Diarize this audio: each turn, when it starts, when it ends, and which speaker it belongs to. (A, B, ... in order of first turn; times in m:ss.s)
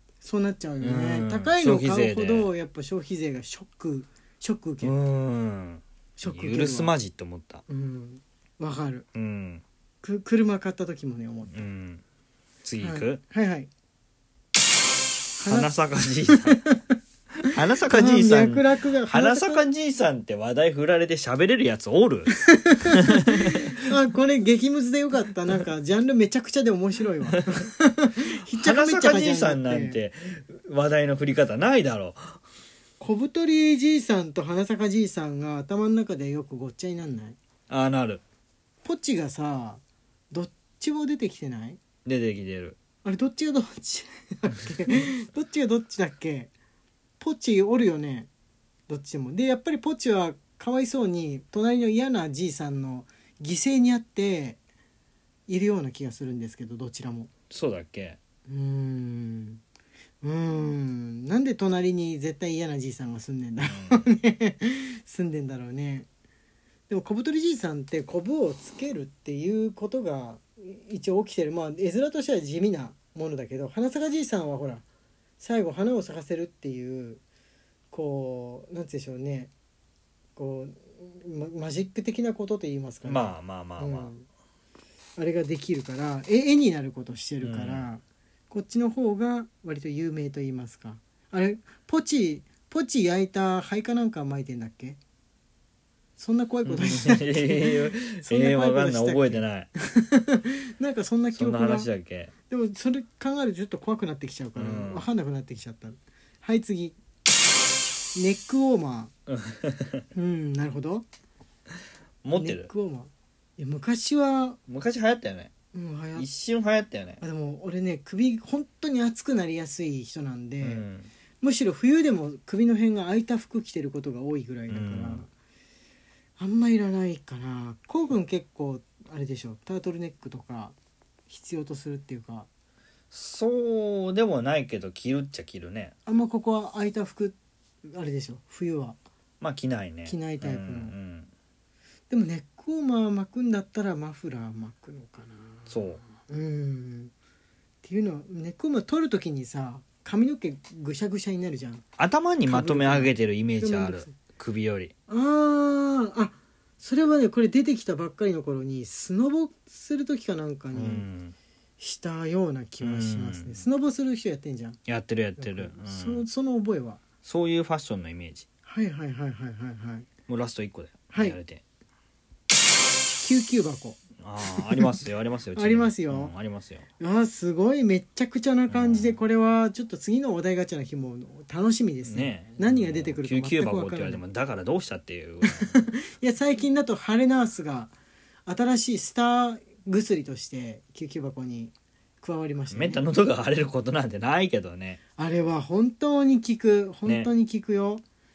0:00.2-0:05.0 A
0:00.8-0:02.5 B
0:04.8-0:07.6 B
0:06.2-0:06.9 A
0:07.7-0:09.1 A
0:09.1-0:09.6 B
0:10.0-0:11.7 A
0:11.5-0:12.0 B
0:12.6-0:13.2 B
0:12.8-0:13.7 A
0:15.4-0:15.7 A
0:15.5-0:16.6 B
0:16.3-0:16.8 A
0:17.5-0:22.3 B
0:17.9-0:19.6 A
0:22.4-0:30.0 A
0:22.9-0:23.8 B
0:28.5-0:32.4 B
0:33.0-0:37.4 A
0:37.7-0:38.2 B
0:38.8-0:39.8 A
0:40.3-0:41.8 A
0:42.0-0:42.8 B
0:43.0-0:46.5 A
0:47.2-0:48.3 A
0:48.9-0:54.6 A
0:55.5-0:57.3 A
0:57.5-0:58.2 B
0:58.5-0:59.6 A
1:00.2-1:06.1 A
1:03.6-1:04.0 B
1:06.9-1:14.8 A
1:15.4-1:17.2 A
1:17.9-1:19.5 A
1:20.4-1:24.2 A
1:23.0-1:24.1 B
1:25.2-1:35.0 A
1:27.4-1:27.8 B
1:36.2-1:41.9 A
1:36.6-1:39.7 B
1:41.3-1:42.3 B
1:42.5-1:47.0 A
1:44.6-1:45.1 B
1:48.2-1:49.1 A
1:49.3-1:50.0 B
1:50.2-1:51.0 A
1:52.2-1:52.7 B
1:52.4-1:54.6 A
1:54.7-1:55.5 B
1:55.7-1:56.3 A
1:56.2-1:57.2 B
1:57.2-2:00.8 A
2:00.6-2:01.1 B
2:01.4-2:05.3 A
2:04.7-2:05.2 B
2:06.4-2:10.7 A
2:11.3-2:12.5 A
2:13.1-2:15.9 B
2:16.1-2:19.0 A
2:19.4-2:21.3 B
2:20.1-2:20.9 A
2:22.1-2:27.1 A
2:25.7-2:26.0 B
2:27.8-2:31.8 A
2:32.0-2:34.9 B
2:32.4-2:34.1 A
2:35.1-2:41.0 A
2:40.7-2:41.3 B
2:41.8-2:44.8 A
2:42.8-2:43.6 B
2:44.9-2:46.2 B
2:45.4-2:47.0 A
2:47.2-2:48.4 B
2:48.7-2:50.1 A
2:50.3-2:51.6 B
2:51.1-2:51.4 A
2:53.2-2:55.0 A
2:54.2-2:56.8 B
2:55.6-2:56.3 A
2:57.0-3:04.2 A
2:58.7-2:59.2 B
3:02.0-3:05.8 B
3:05.4-3:07.9 A
3:08.4-3:13.0 A
3:12.7-3:15.0 B
3:15.2-3:18.0 A